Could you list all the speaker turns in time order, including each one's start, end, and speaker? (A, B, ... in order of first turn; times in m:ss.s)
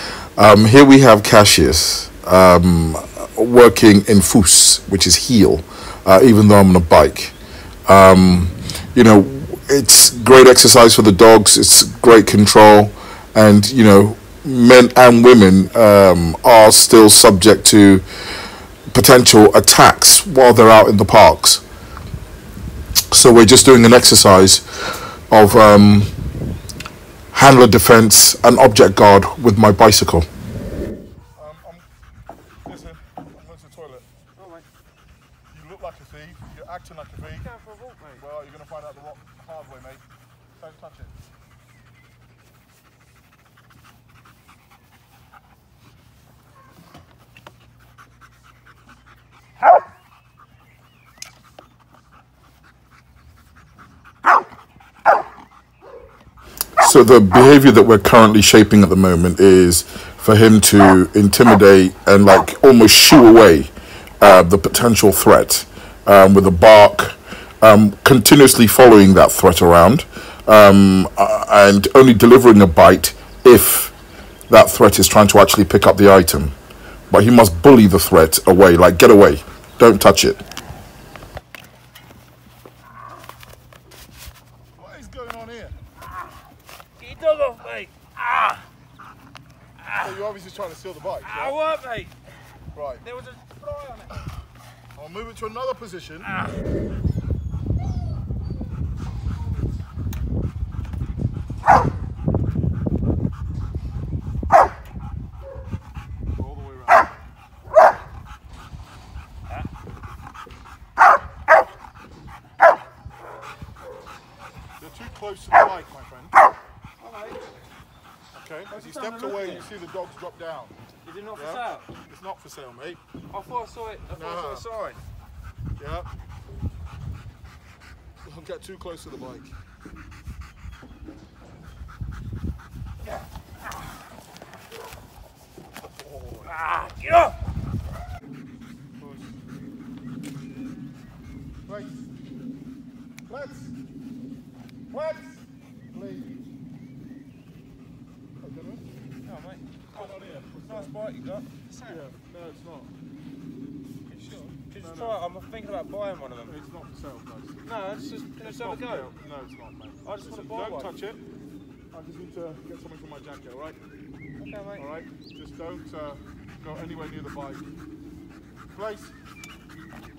0:00.4-0:07.3 A
0:07.9-0:18.0 A
0:18.9-0:21.6 A
0:23.1-0:26.1 A
0:27.3-0:30.3 A
0:31.4-0:31.8 B
0:32.6-0:34.1 B
0:34.4-0:34.7 C
0:35.5-0:37.5 B
0:37.2-0:38.2 C
0:38.2-0:40.0 B
0:40.6-0:41.1 B
0:56.8-1:13.9 A
1:14.5-1:16.5 A
1:17.1-1:20.4 A
1:24.8-1:25.7 B
1:27.0-1:28.6 C
1:29.8-1:30.2 C
1:30.0-1:31.6 B
1:31.2-1:32.1 C
1:32.7-1:33.0 B
1:33.0-1:34.2 C
1:34.9-1:36.3 B
1:36.2-1:36.5 C
1:46.3-1:47.1 B
1:54.8-1:56.3 B
1:57.0-1:57.4 C
1:58.3-2:00.7 B
1:58.7-1:59.7 C
2:01.0-2:01.9 C
2:01.4-2:03.0 B
2:03.3-2:05.0 C
2:04.1-2:04.6 B
2:05.8-2:06.1 B
2:08.2-2:09.5 B
2:15.8-2:16.5 B
2:16.4-2:17.4 C
2:19.0-2:19.3 C
2:21.6-2:22.1 B
2:23.3-2:23.8 B
2:24.9-2:26.4 B
2:28.4-2:28.8 B
2:29.2-2:30.1 C
2:29.9-2:30.9 B
2:30.7-2:32.0 C
2:31.8-2:32.9 B
2:34.1-2:36.5 C
2:34.8-2:35.2 B
2:36.4-2:37.7 B
2:37.6-2:39.1 C
2:38.4-2:41.2 B
2:40.0-2:40.9 C
2:41.9-2:43.8 B
2:44.4-2:44.9 C
2:44.8-2:47.6 B
2:48.7-2:49.1 B